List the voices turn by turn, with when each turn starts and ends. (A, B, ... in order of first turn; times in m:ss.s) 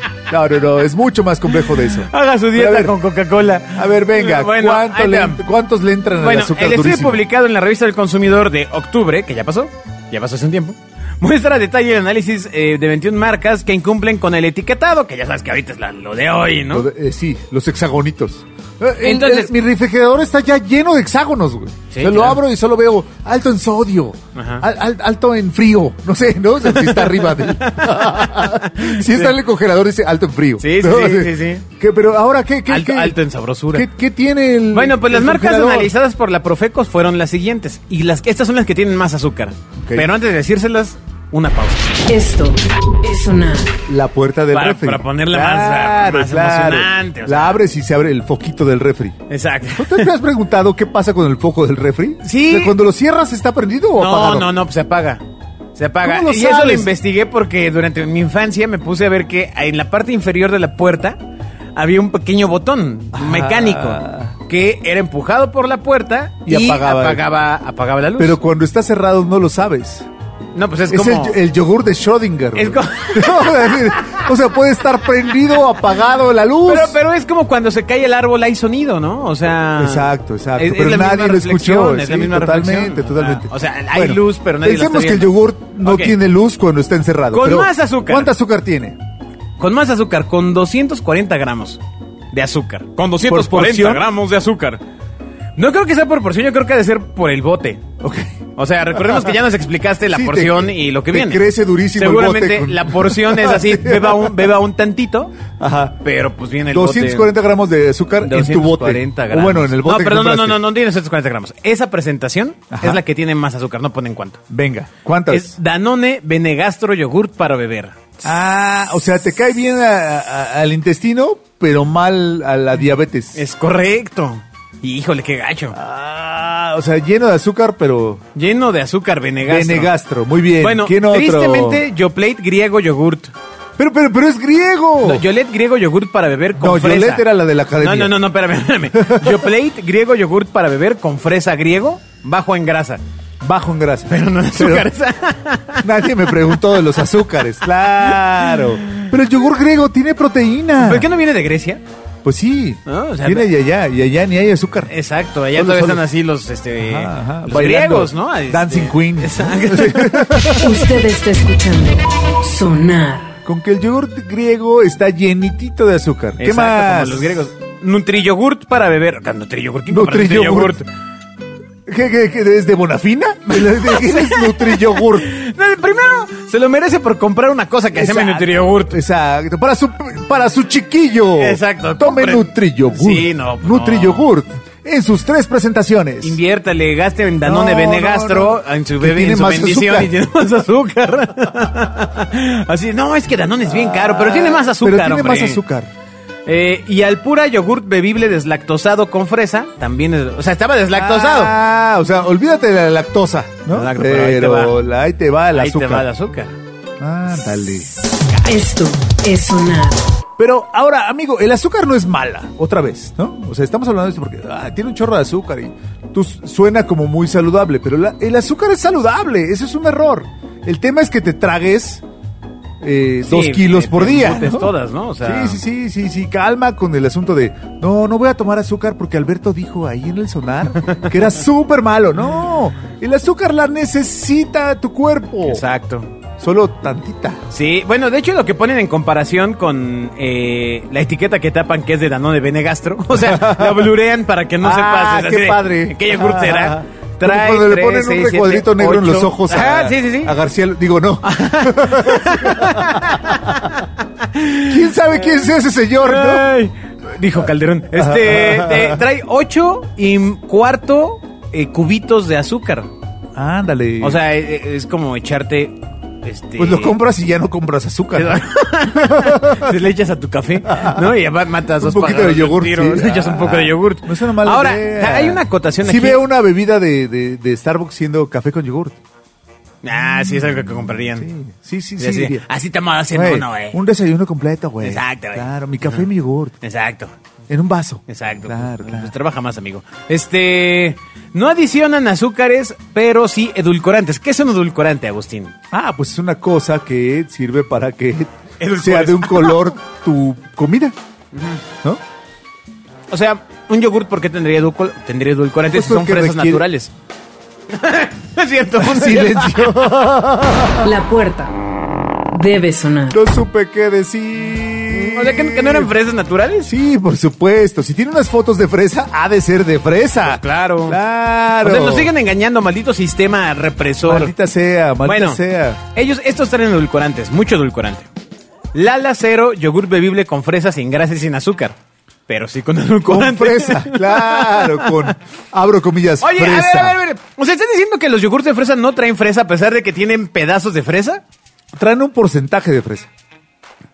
0:00.3-0:02.9 A
0:01.7-0:05.4 B
0:03.7-0:07.2 A
0:06.2-0:16.9 B
0:16.7-0:33.2 A
0:19.0-0:19.5 B
0:21.9-0:22.4 B
0:24.4-0:24.6 B
0:26.7-0:29.3 B
0:30.6-0:31.6 B
0:32.7-0:33.9 B
0:33.7-0:35.9 A
0:34.7-0:42.0 B
0:39.8-0:40.1 A
0:42.1-0:43.8 C
0:43.9-0:49.2 A
0:44.5-0:47.6 B
0:49.3-0:50.1 B
0:49.8-0:54.5 A
0:52.2-0:52.8 B
0:54.0-0:55.2 B
0:55.8-1:01.2 B
0:56.0-0:56.9 A
1:01.8-1:08.4 B
1:03.1-1:04.4 A
1:06.5-1:07.2 A
1:08.2-1:10.1 A
1:10.6-1:11.4 B
1:10.9-1:17.0 A
1:12.6-1:14.3 B
1:16.7-1:26.2 B
1:19.8-1:29.0 A
1:27.3-1:28.3 B
1:29.6-1:31.8 B
1:32.3-1:34.8 B
1:33.3-1:34.1 A
1:35.6-1:37.8 B
1:38.0-1:38.4 A
1:38.6-1:41.4 B
1:39.0-1:39.3 A
1:40.1-1:44.4 A
1:42.0-1:45.4 B
1:45.6-1:46.0 A
1:46.0-1:47.3 B
1:46.7-1:50.6 A
1:48.2-1:54.4 B
1:52.7-1:53.0 A
1:54.5-1:55.5 A
1:55.3-1:58.2 B
1:58.2-2:03.4 A
2:03.4-2:05.8 B
2:05.7-2:08.2 A
2:08.4-2:09.9 B
2:09.5-2:11.8 A
2:10.6-2:13.3 B
2:13.8-2:15.2 A
2:15.0-2:17.2 B
2:16.6-2:18.2 A
2:17.8-2:23.0 B
2:18.9-2:19.5 A
2:23.4-2:24.9 A
2:24.1-2:26.3 B
2:25.8-2:31.1 A
2:28.1-2:29.0 B
2:30.8-2:31.8 B
2:32.2-2:34.9 A
2:32.9-2:33.5 B
2:34.9-2:40.4 B
2:35.5-2:36.0 A
2:36.8-2:40.9 A
2:40.5-2:43.4 C
2:43.4-2:47.4 A
2:46.4-2:50.9 B
2:49.9-2:50.8 A
2:51.9-2:55.3 A
2:53.7-2:59.0 B
2:57.9-3:06.4 A
3:01.4-3:04.3 B
3:06.2-3:15.6 B
3:07.4-3:10.1 A
3:13.7-3:15.9 A
3:16.5-3:21.5 B
3:20.9-3:26.1 A
3:23.7-3:24.7 B
3:25.5-3:26.6 B
3:27.0-3:27.9 A
3:28.4-3:30.0 C
3:30.4-3:42.0 A
3:42.8-3:55.6 A
3:43.2-3:45.6 B
3:55.5-3:56.1 B
3:56.4-3:57.4 A
3:57.5-4:10.4 B
4:03.2-4:03.9 A
4:04.6-4:13.4 A
4:11.2-4:15.0 B
4:14.7-4:16.4 A
4:16.0-4:22.9 B
4:18.0-4:19.0 A
4:23.4-4:24.2 A
4:24.0-4:27.0 B
4:26.6-4:28.4 A
4:28.1-4:36.2 B
4:29.1-4:29.6 A
4:30.7-4:31.1 A
4:31.8-4:39.0 A
4:39.8-4:41.3 B
4:41.2-4:42.4 A
4:42.0-4:43.8 B
4:43.1-4:46.5 A
4:44.8-4:46.0 B
4:46.6-4:47.1 B
4:47.5-4:49.1 A
4:48.1-4:55.5 B
4:55.7-5:01.0 A
4:58.6-4:59.7 B
5:01.3-5:01.6 B
5:03.1-5:06.9 B
5:05.7-5:06.6 A
5:07.7-5:10.0 B
5:08.8-5:10.9 A
5:10.8-5:11.5 C
5:12.3-5:13.2 C
5:13.1-5:15.9 A
5:14.9-5:16.7 B
5:16.7-5:22.1 A
5:20.2-5:21.0 B
5:21.6-5:24.3 B
5:24.1-5:25.8 A
5:25.0-5:28.1 B
5:28.7-5:31.8 B
5:32.3-5:35.1 B
5:33.1-5:37.0 A
5:36.2-5:41.2 B
5:41.8-5:43.1 A